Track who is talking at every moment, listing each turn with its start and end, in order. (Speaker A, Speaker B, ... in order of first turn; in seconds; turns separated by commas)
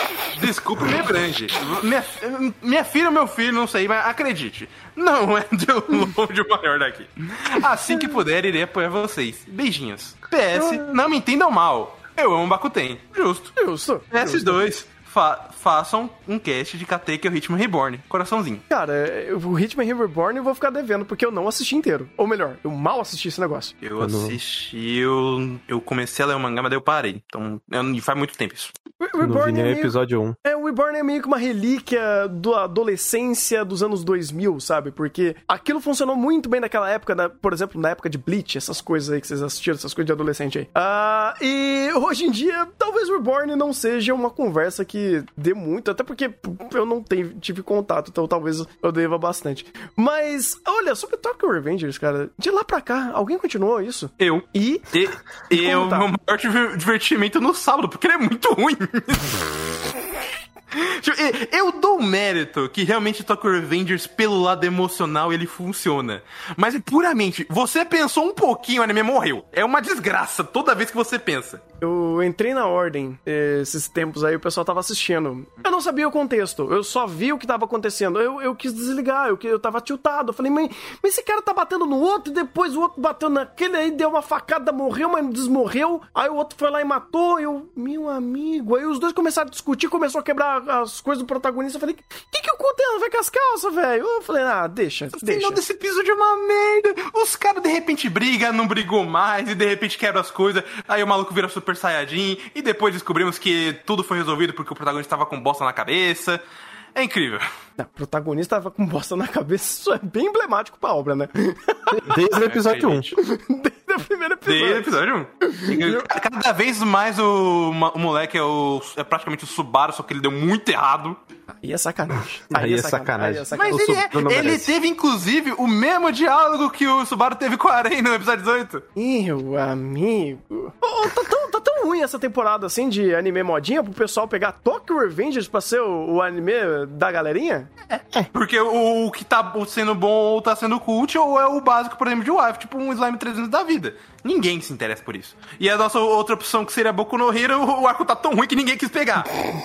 Speaker A: 0.2-13.6, Speaker B: 13.6-14.6, Speaker A: 14.1-18.6, Speaker B: 18.7-23.7, Speaker A: 23.8-28.7, Speaker C: 24.0-24.4, Speaker B: 29.0-54.9, Speaker C: 29.2-30.4, Speaker A: 54.2-59.9, Speaker B: 55.5-56.1, Speaker A: 60.7-71.6, Speaker B: 71.8-95.6, Speaker A: 95.2-106.4, Speaker A: 107.0-107.5, Speaker B: 107.8-112.0, Speaker C: 111.9-113.1, Speaker A: 112.3-113.2, Speaker B: 113.2-114.9, Speaker A: 114.5-121.2, Speaker B: 115.4-116.1, Speaker B: 121.6-124.0, Speaker C: 122.5-124.7, Speaker A: 123.5-128.8, Speaker B: 129.0-137.7, Speaker A: 138.3-149.3